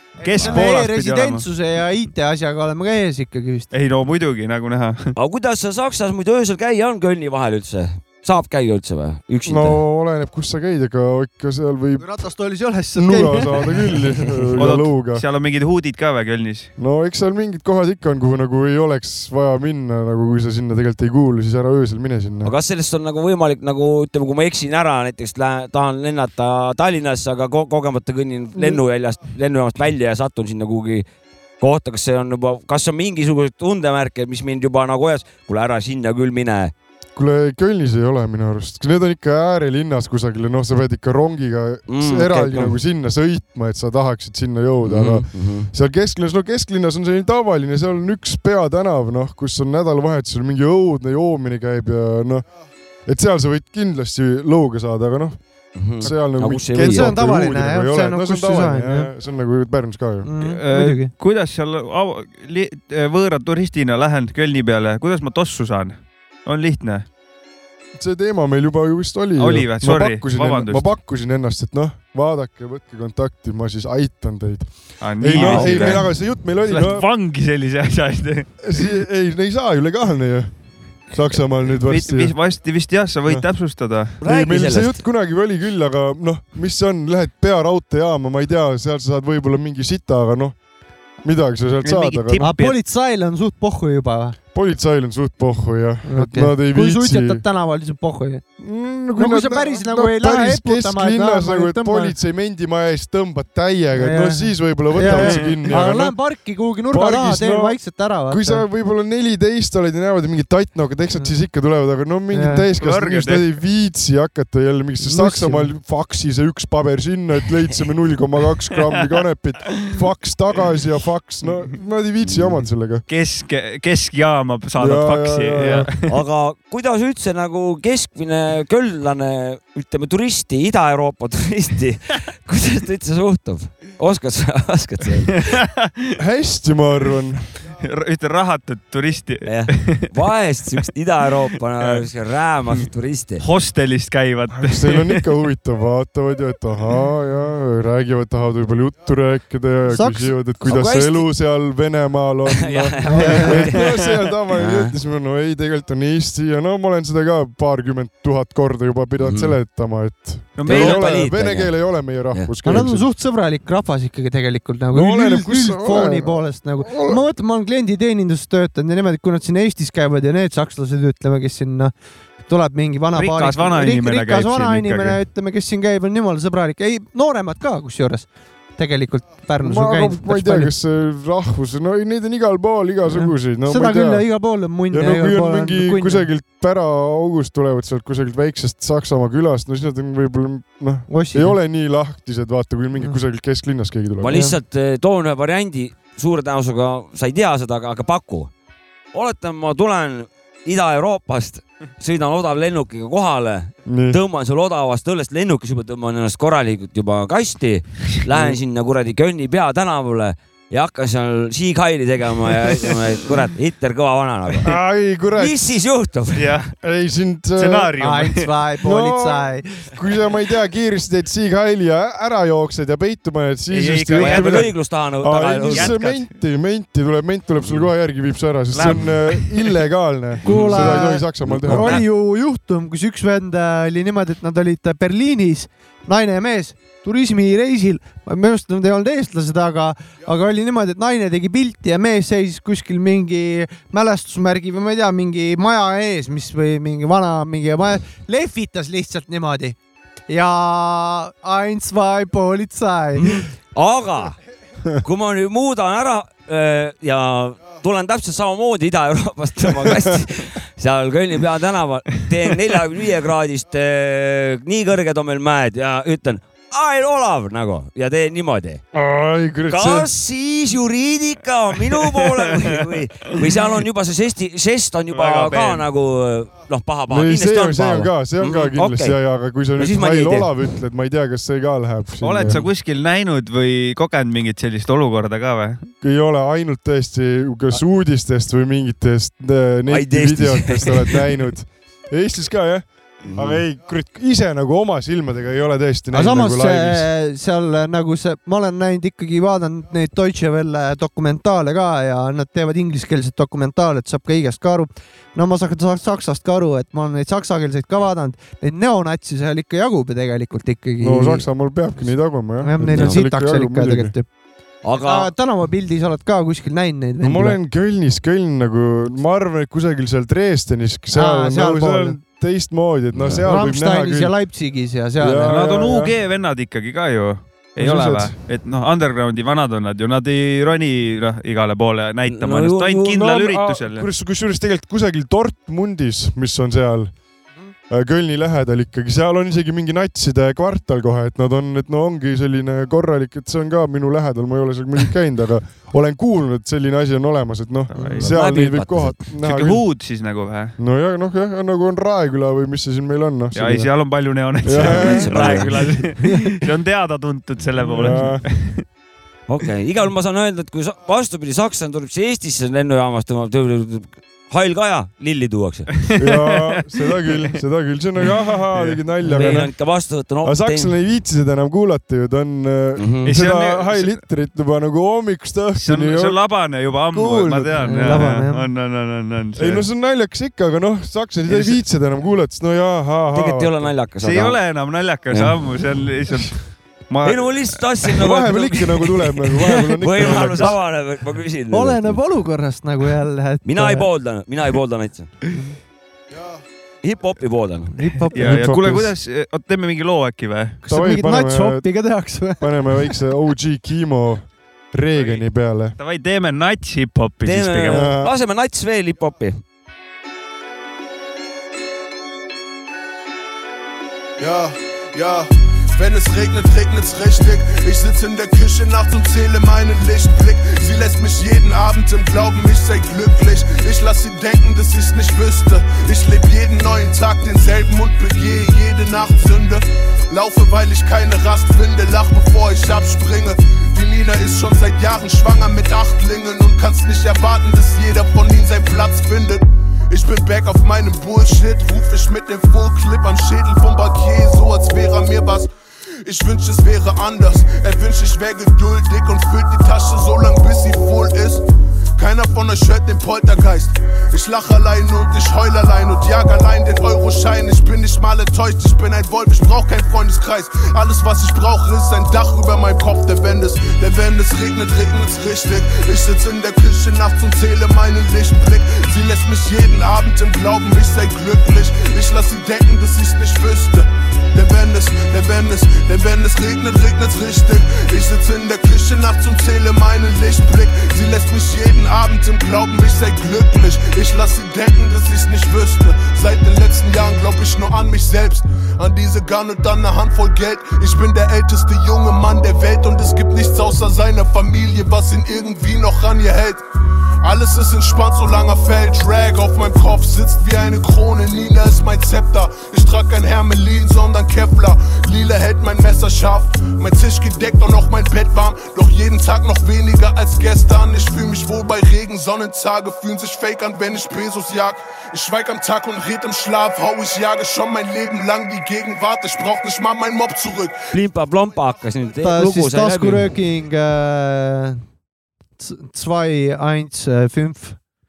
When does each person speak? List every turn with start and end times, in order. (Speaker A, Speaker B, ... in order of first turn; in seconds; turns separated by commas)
Speaker A: 0.2-3.7, Speaker B: 0.2-1.4, Speaker C: 0.4-0.7, Speaker B: 3.7-5.1, Speaker D: 5.2-9.8, Speaker C: 9.4-12.2, Speaker A: 12.0-14.0, Speaker C: 12.9-15.2, Speaker B: 14.6-16.7, Speaker C: 16.8-22.5, Speaker D: 22.4-31.1, Speaker C: 28.6-28.8, Speaker D: 31.6-36.7, Speaker C: 37.2-52.5, Speaker D: 41.9-42.8, Speaker D: 44.9-45.7, Speaker C: 53.1-55.4, Speaker D: 55.8-57.2, Speaker C: 55.9-60.3, Speaker A: 56.8-59.1, Speaker A: 60.2-61.1, Speaker B: 60.4-67.1, Speaker C: 68.0-77.1, Speaker B: 69.4-70.9, Speaker B: 75.0-76.1, Speaker D: 75.3-76.0, Speaker B: 76.6-78.9, Speaker C: 78.6-80.5, Speaker C: 81.1-82.3, Speaker B: 81.8-84.2, Speaker C: 84.2-90.5, Speaker D: 84.2-85.0, Speaker C: 91.2-92.5, Speaker B: 91.8-92.8, Speaker A: 92.4-94.4, Speaker C: 94.5-97.4, Speaker A: 96.0-98.4, Speaker C: 98.6-106.2, Speaker A: 99.2-102.2, Speaker A: 104.0-108.7, Speaker B: 105.0-105.7, Speaker C: 106.9-107.8, Speaker C: 108.3-123.0, Speaker A: 112.3-112.7, Speaker B: 112.8-113.5, Speaker A: 115.0-115.7, Speaker D: 122.2-122.6, Speaker B: 123.1-126.2, Speaker C: 124.8-125.9, Speaker D: 126.1-135.5, Speaker B: 135.4-136.2, Speaker C: 136.2-137.4, Speaker B: 137.8-140.1, Speaker D: 139.5-143.4, Speaker B: 141.8-142.1, Speaker B: 143.4-145.2, Speaker C: 144.5-163.1, Speaker A: 149.9-150.3, Speaker D: 150.6-151.3, Speaker D: 152.6-154.0, Speaker A: 153.1-153.6, Speaker D: 154.5-154.9, Speaker D: 159.2-159.6, Speaker B: 160.6-161.2, Speaker D: 160.6-161.7, Speaker A: 162.6-171.9, Speaker C: 164.9-167.2, Speaker A: 172.4-180.7, Speaker B: 173.2-175.2, Speaker C: 179.6-184.3, Speaker A: 183.1-186.3, Speaker C: 184.9-194.4, Speaker A: 191.1-191.6, Speaker D: 194.2-198.5, Speaker A: 194.3-194.6, Speaker D: 199.1-214.7, Speaker C: 203.9-204.2, Speaker C: 214.6-215.7, Speaker D: 215.3-216.6, Speaker B: 216.3-216.7, Speaker C: 216.8-218.0, Speaker B: 217.6-218.5, Speaker A: 218.0-219.9, Speaker C: 218.8-232.0, Speaker B: 223.7-224.7, Speaker D: 224.2-226.0, Speaker B: 225.7-226.3, Speaker B: 228.7-229.8, Speaker D: 230.5-232.0, Speaker A: 230.5-249.8, Speaker A: 250.3-253.4, Speaker D: 253.2-254.4, Speaker D: 255.0-268.8, Speaker C: 268.9-270.1, Speaker D: 269.7-279.2, Speaker B: 275.1-275.9, Speaker C: 277.1-282.6, Speaker D: 279.8-280.5, Speaker B: 282.2-285.9, Speaker D: 282.4-282.7, Speaker C: 286.0-297.1, Speaker D: 289.9-291.2, Speaker D: 293.2-293.6, Speaker A: 296.1-311.5, Speaker C: 311.0-314.1, Speaker A: 312.6-314.3, Speaker D: 312.8-313.2, Speaker D: 314.8-315.3, Speaker A: 315.0-317.6, Speaker C: 317.2-324.3, Speaker A: 321.1-322.2, Speaker D: 323.1-323.5, Speaker A: 323.5-325.6, Speaker C: 325.2-326.1, Speaker B: 325.5-334.1, Speaker C: 327.8-328.4, Speaker D: 332.3-333.3, Speaker C: 333.1-337.1, Speaker C: 337.9-349.9, Speaker B: 347.9-348.3, Speaker A: 347.9-348.2, Speaker D: 348.2-349.2, Speaker B: 349.4-350.8, Speaker C: 350.8-353.9, Speaker B: 353.5-358.9, Speaker C: 354.6-356.1, Speaker D: 354.8-356.0, Speaker A: 356.2-356.5, Speaker C: 357.8-358.5, Speaker D: 359.5-366.1, Speaker B: 366.1-366.8, Speaker C: 366.1-369.8, Speaker B: 368.7-369.0, Speaker D: 369.3-370.9, Speaker C: 370.4-376.4, Speaker D: 373.0-373.3, Speaker B: 373.2-374.2, Speaker B: 375.8-379.9, Speaker C: 377.1-378.3, Speaker A: 377.8-378.7, Speaker C: 379.6-383.9, Speaker D: 383.3-384.6, Speaker B: 384.2-387.8, Speaker D: 387.2-392.2, Speaker C: 388.1-390.8, Speaker A: 391.7-394.1, Speaker D: 393.6-395.4, Speaker D: 397.0-398.1, Speaker A: 397.9-398.7, Speaker B: 398.3-400.8, Speaker C: 398.4-399.1, Speaker C: 400.9-401.9, Speaker A: 400.9-402.9, Speaker C: 402.6-406.0, Speaker B: 405.1-405.4, Speaker B: 406.0-408.1, Speaker D: 407.4-409.6, Speaker C: 407.9-408.3, Speaker E: 414.4-445.7, Speaker E: 446.2-451.6, Speaker E: 452.2-496.8, Speaker E: 497.4-521.1, Speaker D: 521.1-523.5, Speaker A: 522.4-525.0, Speaker A: 525.8-528.0